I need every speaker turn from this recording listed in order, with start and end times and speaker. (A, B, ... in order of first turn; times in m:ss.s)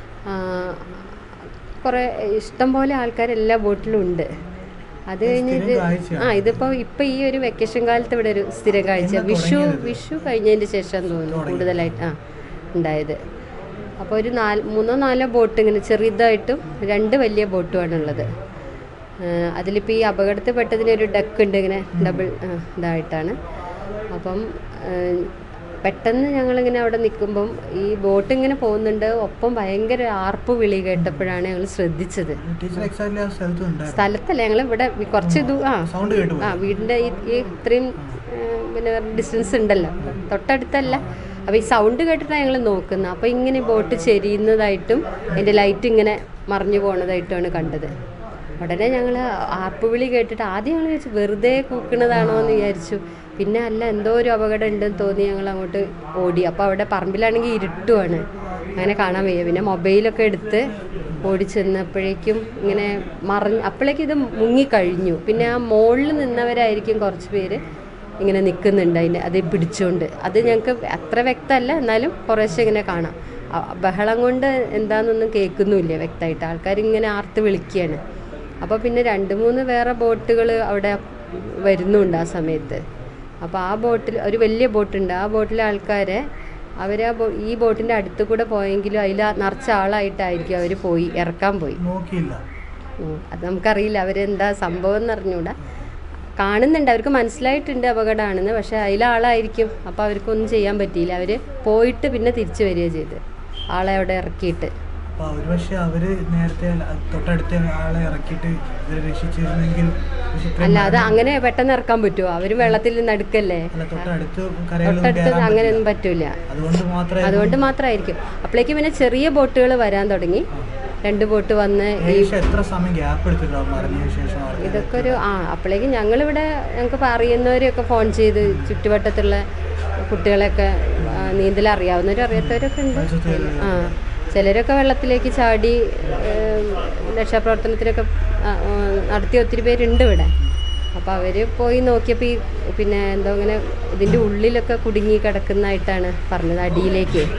0:00.3-0:00.9 A
0:01.8-0:04.3 A
0:05.1-0:12.2 A
0:05.2-0:06.7 B
0:09.0-0:10.0 B
0:11.1-0:12.1 B
0:12.8-0:13.2 A
0:14.0-0:18.3 A
0:19.2-0:23.4 A
0:21.9-0:22.3 B
0:24.1-0:25.3 A
0:25.8-0:32.4 A
0:31.0-0:31.3 B
0:32.4-0:34.1 B
0:33.9-0:35.9 A
0:35.2-0:36.7 B
0:36.4-0:48.0 A
0:47.6-0:47.9 B
0:48.6-0:58.2 A
0:52.1-0:52.8 B
0:58.8-1:00.7 A
1:01.2-1:07.6 A
1:08.2-1:18.0 A
1:18.6-1:22.8 A
1:23.4-1:26.2 A
1:26.8-1:31.8 A
1:31.8-1:32.4 B
1:33.0-1:35.6 A
1:35.6-1:35.9 B
1:36.4-1:43.2 A
1:43.7-1:44.7 A
1:45.1-1:51.2 B
1:50.6-1:54.1 A
1:53.7-1:55.8 B
1:54.8-1:56.4 A
1:56.5-1:57.6 B
1:57.2-2:00.5 A
2:01.0-2:02.3 A
2:02.0-2:05.2 B
2:04.6-2:09.4 A
2:08.4-2:08.8 B
2:10.0-2:20.3 A
2:11.0-2:11.4 B
2:12.3-2:14.0 B
2:21.0-2:27.3 A